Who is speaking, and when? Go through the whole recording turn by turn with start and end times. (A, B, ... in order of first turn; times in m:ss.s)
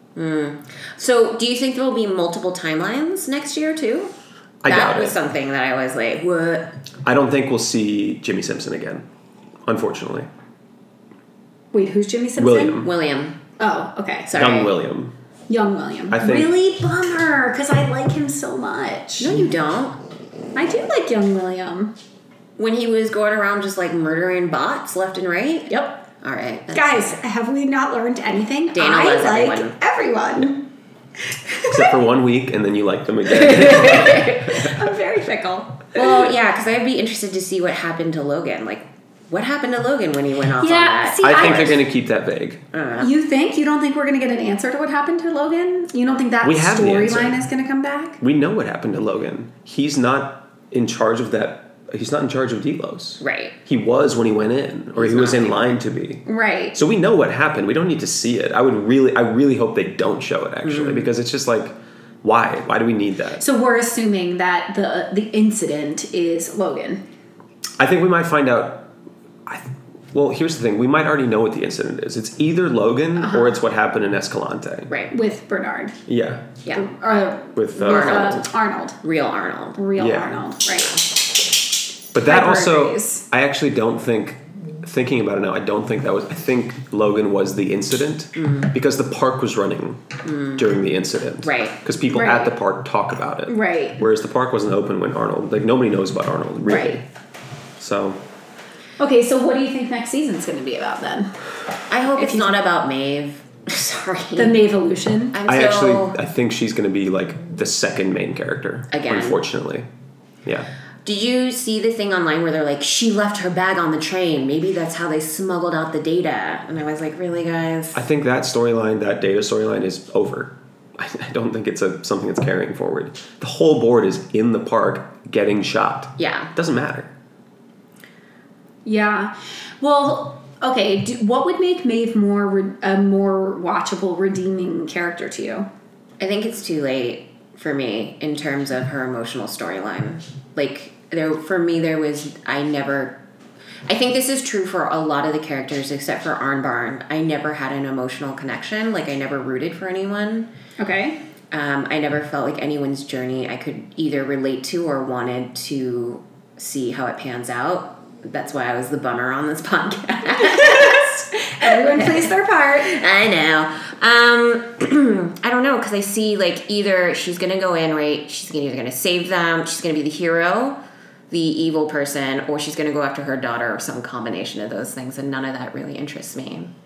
0:00.2-0:04.1 A
0:04.6-0:05.2 B
0:04.7-0:06.7 A
0:07.0-0:09.1 B
0:09.7-0:10.3 B
0:11.7-0:12.8 C
0:12.4-0:12.9 B
0:12.8-0:13.4 A
0:13.6-0:14.3 C
0:14.3-0:14.8 A
0:14.3-0:15.1 B
0:15.5-0:19.4 C
0:16.1-0:16.5 B
0:19.2-0:20.0 A
0:20.6-0:22.0 C
0:22.6-0:27.2 A
0:25.7-0:26.0 C
0:26.7-0:30.7 C
0:28.7-0:29.8 A
0:31.2-0:32.0 C
0:31.7-0:34.7 B
0:33.5-0:34.4 A
0:33.7-0:36.3 C
0:35.9-0:41.8 A
0:40.6-0:41.8 C
0:41.2-0:42.6 B
0:42.7-0:43.1 A
0:43.0-0:48.2 C
0:46.4-0:47.5 B
0:48.2-1:03.4 B
0:53.2-0:53.6 A
0:55.0-0:55.8 A
0:56.3-0:56.8 C
1:00.6-1:01.1 A
1:03.4-1:07.0 C
1:07.8-1:08.9 B
1:09.5-1:14.9 B
1:13.2-1:13.6 C
1:15.1-1:16.0 C
1:16.1-1:16.5 B
1:16.7-1:19.0 C
1:17.6-1:18.5 B
1:17.8-1:18.4 A
1:19.0-1:19.8 A
1:19.8-1:21.0 C
1:20.0-1:20.3 B
1:22.1-1:37.0 B
1:22.2-1:23.2 C
1:28.4-1:28.7 A
1:30.2-1:30.7 A
1:31.4-1:31.8 A
1:32.1-1:32.5 C
1:33.5-1:34.0 C
1:36.7-1:37.0 C
1:37.8-1:38.2 B
1:39.0-1:41.4 C
1:41.9-1:44.6 A
1:42.2-1:42.6 C
1:44.4-1:45.4 C
1:45.3-1:46.2 A
1:45.5-1:49.9 B
1:48.9-1:49.4 A
1:51.0-1:58.0 A
1:57.9-2:07.1 B
2:06.2-2:06.5 A
2:08.8-2:15.7 C
2:16.2-2:23.2 A
2:23.9-2:30.5 A
2:30.8-2:31.2 C
2:31.5-2:50.8 A
2:40.4-2:43.0 C
2:51.3-2:56.7 A